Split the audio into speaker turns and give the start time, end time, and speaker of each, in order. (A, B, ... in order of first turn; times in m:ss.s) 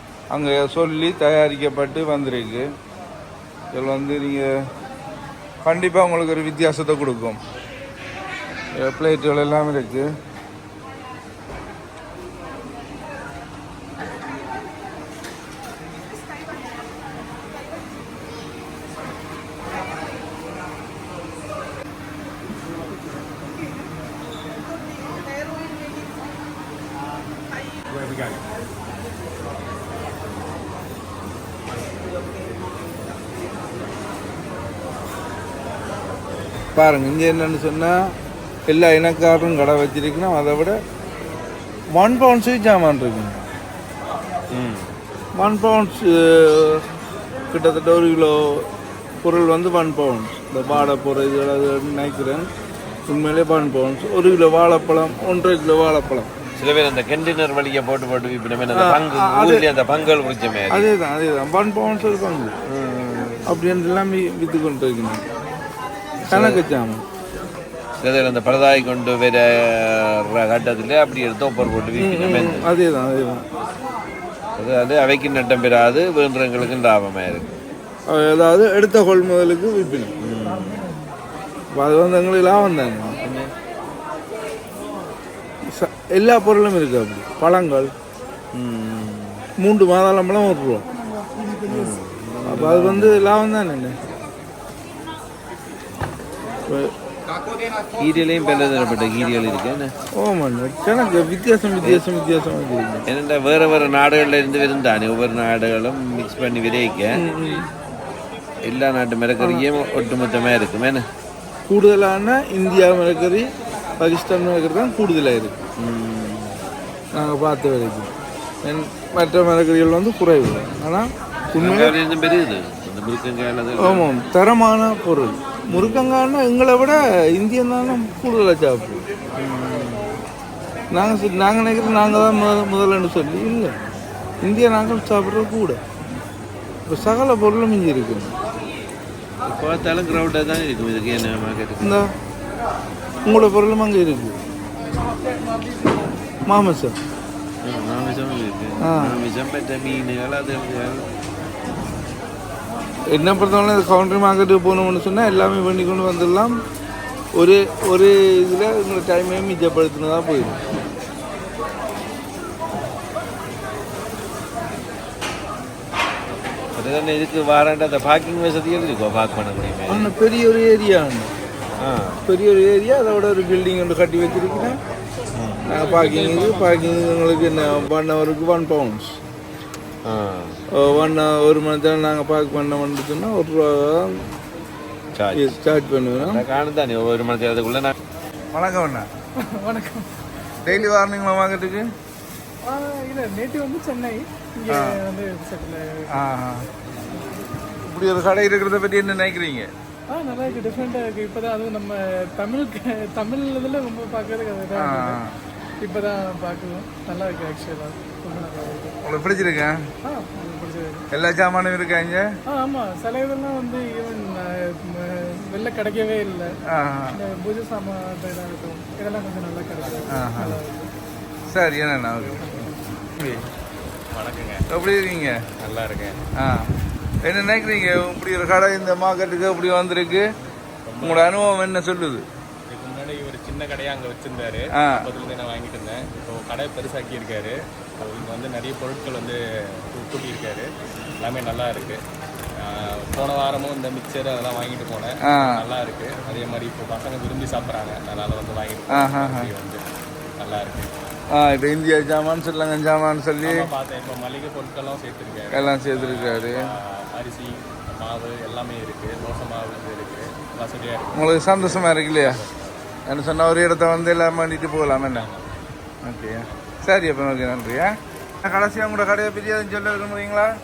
0:00.3-0:02.7 A
0:03.7-0:04.5 A
0:05.6-0:07.4 A
0:08.7-0:10.1 A
0:36.7-0:38.0 A
0:38.7-0:40.8 A
0:41.9-0:43.5 A
0:44.5-0:45.0 B
0:45.4-0:46.8 A
0:47.5-0:48.6 A
0:49.2-0:52.5 A
0:53.1-0:56.3 A
0:56.6-1:00.9 B
0:58.7-0:59.7 A
1:00.7-1:02.5 A
1:02.6-1:03.6 B
1:03.5-1:05.2 A
1:06.3-1:06.6 B
1:06.3-1:07.0 A
1:08.0-1:12.7 B
1:12.0-1:13.4 A
1:14.6-1:17.5 B
1:18.1-1:20.1 A
1:20.2-1:20.8 B
1:21.7-1:23.2 A
1:23.2-1:23.5 B
1:25.7-1:27.9 A
1:28.5-1:29.4 B
1:29.6-1:30.9 A
1:31.6-1:33.3 B
1:32.5-1:34.0 A
1:38.0-1:39.9 B
1:40.2-1:43.0 A
1:43.1-1:47.2 B
1:47.1-1:47.6 A
1:48.6-1:51.0 B
1:51.7-1:53.5 A
1:54.0-1:55.6 A
1:55.8-1:56.6 B
1:57.2-1:58.1 A
1:58.6-2:02.0 A
2:01.6-2:04.1 B
2:03.8-2:09.0 A
2:05.7-2:06.1 B
2:09.3-2:10.2 B
2:10.9-2:13.8 A
2:14.4-2:15.8 A
2:16.8-2:18.3 A
2:19.4-2:22.0 B
2:21.8-2:22.1 A
2:23.2-2:24.4 A
2:25.1-2:26.1 C
2:26.5-2:27.0 A
2:27.6-2:31.1 B
2:28.8-2:29.2 A
2:33.1-2:36.6 A
2:37.4-2:40.6 A
2:46.8-2:50.1 B
2:49.9-2:51.3 A
2:51.8-2:52.2 B
2:52.3-2:54.8 A
2:55.3-2:55.7 B
2:55.7-2:59.2 A
2:55.8-2:56.6 D
3:00.0-3:00.6 B
3:00.8-3:04.2 A
3:05.1-3:05.6 B
3:05.3-3:06.4 A
3:06.1-3:07.9 B
3:08.5-3:09.1 A
3:09.4-3:10.1 C
3:10.6-3:11.9 A
3:12.6-3:16.1 C
3:14.7-3:15.0 A
3:16.1-3:16.7 A
3:17.9-3:19.7 A
3:20.1-3:25.2 C
3:24.8-3:25.3 A
3:25.8-3:29.0 C
3:29.0-3:29.9 A
3:30.0-3:31.0 C
3:31.1-3:32.2 A
3:32.5-3:36.5 C
3:36.7-3:37.2 A
3:37.1-3:40.9 C
3:40.1-3:40.6 A
3:41.5-3:43.5 A
3:42.4-3:42.8 C
3:44.1-3:44.6 D
3:44.7-3:45.4 A
3:45.6-3:46.2 D
3:46.4-3:46.7 A
3:47.2-3:50.3 A
3:50.8-3:51.5 D
3:51.0-3:52.2 A
3:52.7-4:00.7 D
3:54.8-3:55.1 A
4:01.2-4:02.0 D
4:02.6-4:09.8 D
4:05.3-4:05.6 A
4:08.9-4:09.5 A
4:10.4-4:10.9 D
4:11.3-4:13.7 A
4:13.4-4:22.6 D
4:15.5-4:16.7 A
4:21.1-4:22.4 A
4:23.1-4:25.3 A
4:24.8-4:25.6 D
4:26.0-4:30.5 A